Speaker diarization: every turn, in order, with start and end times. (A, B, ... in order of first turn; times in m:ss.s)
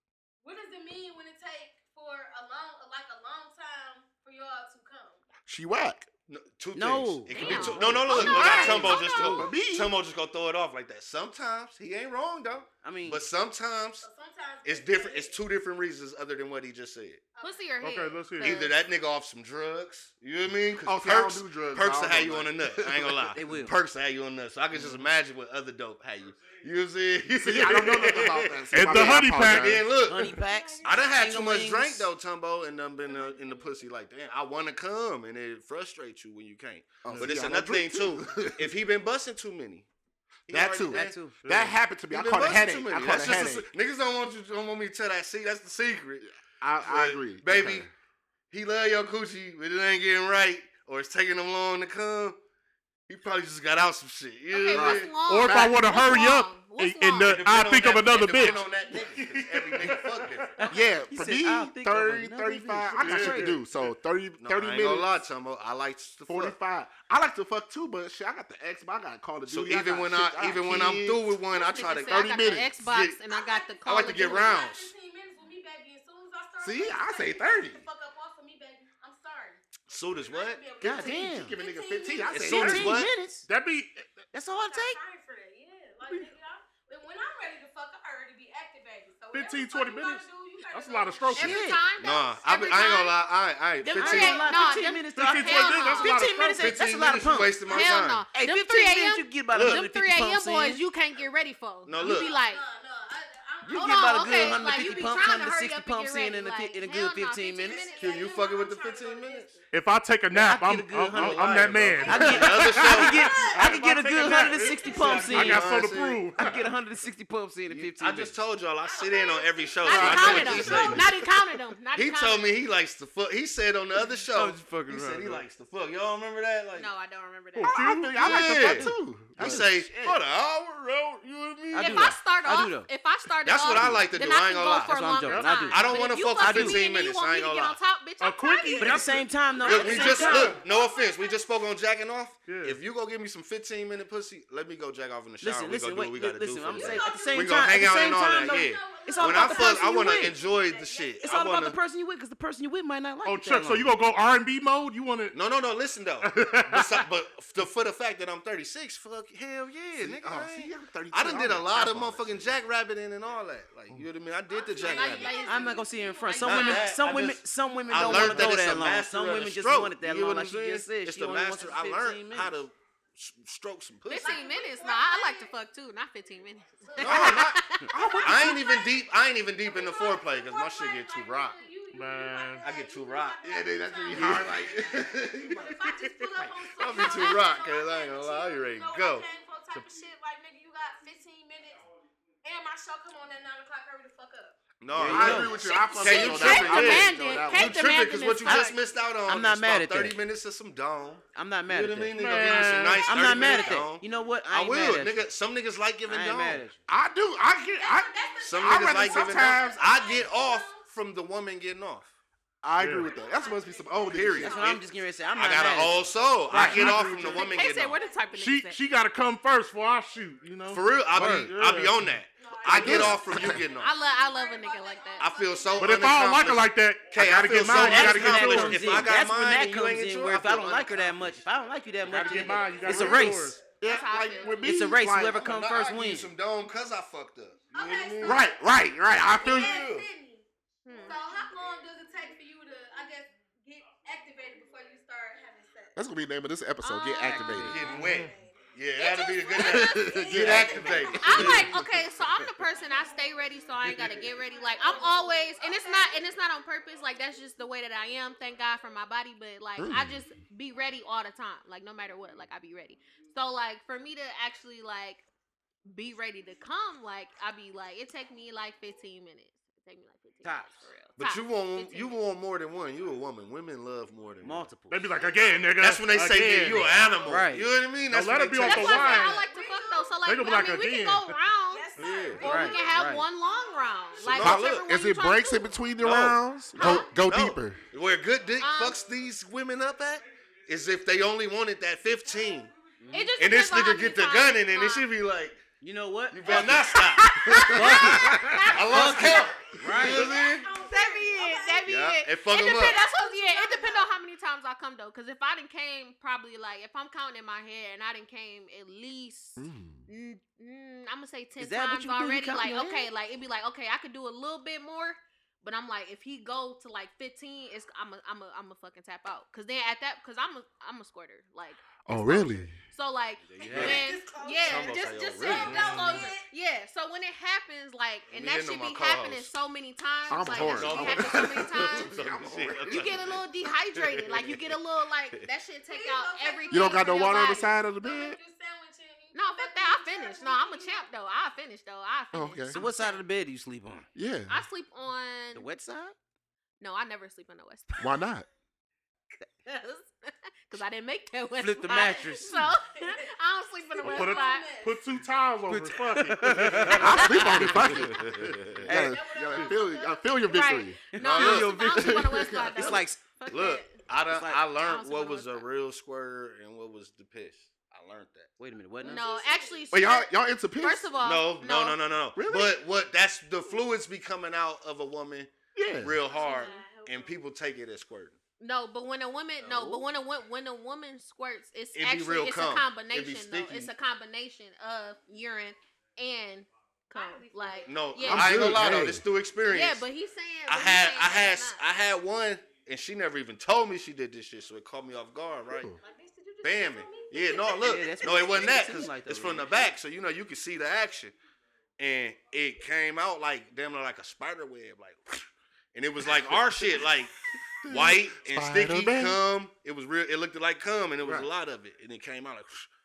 0:00.4-0:05.2 A
0:05.4-0:06.1 B
0:06.3-0:14.1 C
0:06.7-0:07.7 D
0:07.3-0:09.5 E
0:07.4-0:09.9 B
0:12.8-0:13.2 D
0:14.0-0:15.4 A
0:14.6-0:17.2 C
0:17.3-0:17.8 A
0:17.4-0:18.7 E
0:17.8-0:18.6 F
0:18.4-0:39.9 C
0:20.8-0:23.2 B
0:23.3-0:23.7 D
0:24.8-0:25.0 D
0:27.4-0:29.8 B
0:27.7-0:29.8 F
0:30.0-0:32.1 D
0:30.2-0:31.1 A
0:33.0-0:33.8 A
0:37.0-0:38.7 B
0:40.5-0:41.3 C
0:40.5-0:43.7 B
0:40.9-0:41.4 D
0:41.4-0:41.7 F
0:42.1-0:46.3 C
0:46.4-0:47.9 B
0:46.8-0:47.9 C
0:48.5-0:52.4 C
0:53.1-0:55.2 C
0:54.5-0:57.4 E
0:54.7-0:55.8 B
0:55.2-1:00.7 F
0:57.2-1:00.6 C
1:00.6-1:03.6 D
1:00.7-1:05.1 B
1:03.0-1:03.6 F
1:04.4-1:06.6 C
1:06.3-1:11.2 B
1:09.5-1:13.2 C
1:11.5-1:14.5 E
1:12.1-1:12.7 B
1:13.3-1:19.6 A
1:13.8-1:14.9 C
1:16.6-1:17.9 B
1:19.9-1:20.6 C
1:20.2-1:22.6 A
1:20.8-1:21.5 D
1:20.9-1:22.9 B
1:22.3-1:23.1 C
1:22.5-1:23.4 D
1:22.6-1:24.3 F
1:24.3-1:25.0 D
1:24.6-1:31.5 A
1:29.3-1:31.6 F
1:31.3-1:33.2 E
1:31.4-1:31.8 D
1:32.0-1:34.5 C
1:33.8-1:36.2 E
1:34.0-1:37.8 D
1:35.1-1:36.7 F
1:36.6-1:38.3 C
1:37.7-1:42.6 E
1:38.3-1:40.8 D
1:39.5-1:39.8 C
1:41.8-1:42.3 C
1:42.0-1:45.1 A
1:43.6-1:47.8 D
1:43.7-1:48.3 E
1:47.6-1:49.7 A
1:47.9-1:49.6 C
1:49.7-1:56.6 F
1:50.3-1:55.7 D
1:51.1-1:53.4 C
1:51.9-1:55.6 A
1:54.8-1:56.2 C
1:56.4-1:58.3 D
1:57.7-2:01.2 C
1:58.8-2:01.0 A
1:59.8-2:02.5 E
1:59.9-2:01.0 B
2:01.9-2:06.9 C
2:04.3-2:05.4 D
2:06.7-2:07.9 E
2:07.5-2:08.8 F
2:07.6-2:09.6 B
2:08.2-2:12.1 C
2:09.4-2:10.2 D
2:11.7-2:12.9 D
2:11.7-2:19.0 E
2:13.4-2:15.1 C
2:13.7-2:14.1 D
2:14.9-2:16.8 D
2:15.3-2:15.8 F
2:15.7-2:17.8 C
2:18.2-2:20.6 F
2:18.8-2:20.6 D
2:18.9-2:21.6 A
2:19.6-2:31.8 C
2:22.5-2:22.8 F
2:25.4-2:30.4 D
2:26.7-2:31.2 A
2:31.2-2:33.9 D
2:33.2-2:35.4 F
2:35.3-2:45.4 C
2:36.2-2:37.0 F
2:40.0-2:42.5 B
2:44.5-2:47.0 A
2:44.8-2:45.8 E
2:45.4-2:52.5 D
2:46.4-2:54.5 C
2:54.1-2:58.4 E
2:54.1-2:55.6 A
2:56.2-2:57.4 A
2:57.0-2:57.6 C
2:57.0-2:58.7 B
2:58.1-2:59.1 A
2:58.2-3:01.6 C
2:59.6-3:11.8 A
3:01.9-3:02.6 F
3:02.6-3:05.6 C
3:03.4-3:05.8 B
3:06.7-3:09.3 C
3:12.4-3:14.6 A
3:14.8-3:26.6 C
3:14.9-3:15.6 D
3:15.0-3:17.8 B
3:15.2-3:17.0 A
3:16.0-3:18.8 E
3:18.4-3:18.7 D
3:19.2-3:20.2 D
3:21.3-3:22.2 D
3:22.1-3:23.1 F
3:22.4-3:23.9 A
3:23.0-3:25.3 D
3:26.0-3:26.8 D
3:26.9-3:29.8 B
3:27.7-3:30.8 A
3:28.4-3:32.1 C
3:32.6-3:34.6 B
3:32.8-3:33.1 F
3:33.0-3:34.9 A
3:34.1-3:38.0 C
3:34.4-3:37.1 D
3:36.5-3:37.3 B
3:36.6-3:37.0 F
3:36.9-3:38.4 A
3:37.3-3:38.8 E
3:38.4-3:42.1 F
3:40.7-3:43.9 C
3:42.4-3:46.1 A
3:42.8-3:43.6 B
3:43.6-3:45.3 E
3:45.2-3:51.4 C
3:45.8-3:49.0 F
3:47.8-3:53.6 D
3:52.0-3:53.6 F
3:52.3-3:54.5 A
3:52.8-3:53.4 C
3:53.8-3:55.5 B
3:53.8-3:54.9 E
3:54.6-3:56.3 D
3:55.4-3:58.5 C
3:57.7-3:58.5 A
3:58.2-3:59.8 B
3:59.3-4:06.0 A
3:59.4-4:00.0 C
4:00.8-4:01.2 E
4:06.0-4:07.9 B
4:06.8-4:07.6 E
4:07.3-4:07.8 D
4:07.3-4:11.7 C
4:07.6-4:11.7 A
4:07.8-4:08.3 F
4:09.6-4:11.9 B
4:11.0-4:25.2 E
4:13.8-4:16.3 A
4:19.8-4:20.2 B
4:25.8-4:32.2 E
4:30.4-4:30.8 D
4:31.2-4:34.7 C
4:34.4-4:35.0 D
4:34.9-4:37.1 F
4:35.8-4:39.2 C
4:37.2-4:37.7 D
4:38.1-4:39.4 F
4:38.6-4:45.8 E
4:38.8-4:40.2 A
4:40.2-4:41.4 F
4:41.7-4:44.2 A
4:42.0-4:42.4 C
4:42.4-4:43.2 D
4:44.2-4:44.8 C
4:44.4-4:47.8 B
4:46.0-4:52.7 C
4:46.8-4:47.1 E
4:48.6-4:49.0 E
4:53.0-4:53.3 D
4:53.1-4:55.0 E
4:53.4-4:55.6 C
4:55.8-4:57.2 D
4:56.3-5:00.7 C
4:56.5-4:59.4 E
4:57.4-4:58.0 B
4:57.8-4:58.1 D
4:58.3-4:58.6 F
4:58.9-5:00.3 D
4:59.9-5:01.9 A
5:00.7-5:32.2 E
5:01.8-5:03.0 C
5:02.7-5:04.2 A
5:09.6-5:10.0 B
5:11.6-5:13.1 D
5:22.0-5:22.8 B
5:23.5-5:24.1 D
5:23.5-5:26.5 A
5:23.7-5:26.3 C
5:25.6-5:25.9 F
5:28.3-5:29.5 C
5:30.3-5:33.0 B
5:30.4-5:33.4 C
5:32.8-5:37.8 E
5:33.9-5:34.8 C
5:35.9-5:41.1 A
5:36.7-5:38.4 B
5:39.3-5:43.2 E
5:42.3-5:42.8 B
5:42.7-5:44.1 D
5:44.1-5:44.6 B
5:44.5-5:45.7 E
5:45.5-5:46.2 D
5:46.8-5:48.2 E
5:48.0-5:48.4 B
5:49.5-5:54.7 E
5:51.6-5:52.7 D
5:51.9-5:53.3 A
5:54.0-5:55.2 A
5:54.0-5:57.7 F
5:55.7-5:58.1 D
5:56.9-6:01.0 B
5:57.2-5:57.6 E
5:58.0-5:58.8 C
5:58.8-5:59.2 D
5:58.9-6:00.7 A
6:00.4-6:04.0 E
6:01.1-6:03.2 D
6:01.2-6:01.8 C
6:01.9-6:02.9 B
6:03.5-6:08.5 C
6:04.3-6:04.6 D
6:04.7-6:05.7 E
6:08.6-6:09.2 D
6:09.0-6:10.0 A
6:09.0-6:12.0 E
6:09.9-6:11.1 B
6:11.2-6:18.4 C
6:12.4-6:12.8 B
6:15.7-6:16.2 B
6:16.2-6:17.4 A
6:16.3-6:16.8 E
6:18.6-6:28.8 E
6:19.7-6:20.0 D
6:21.9-6:23.9 C
6:27.1-6:28.1 A
6:27.8-6:30.0 C
6:28.3-6:29.2 B
6:29.7-6:31.8 E
6:30.7-6:35.9 C
6:36.0-6:39.1 A
6:36.6-6:41.3 C
6:37.8-6:39.9 D
6:42.0-6:52.9 C
6:47.8-6:49.4 B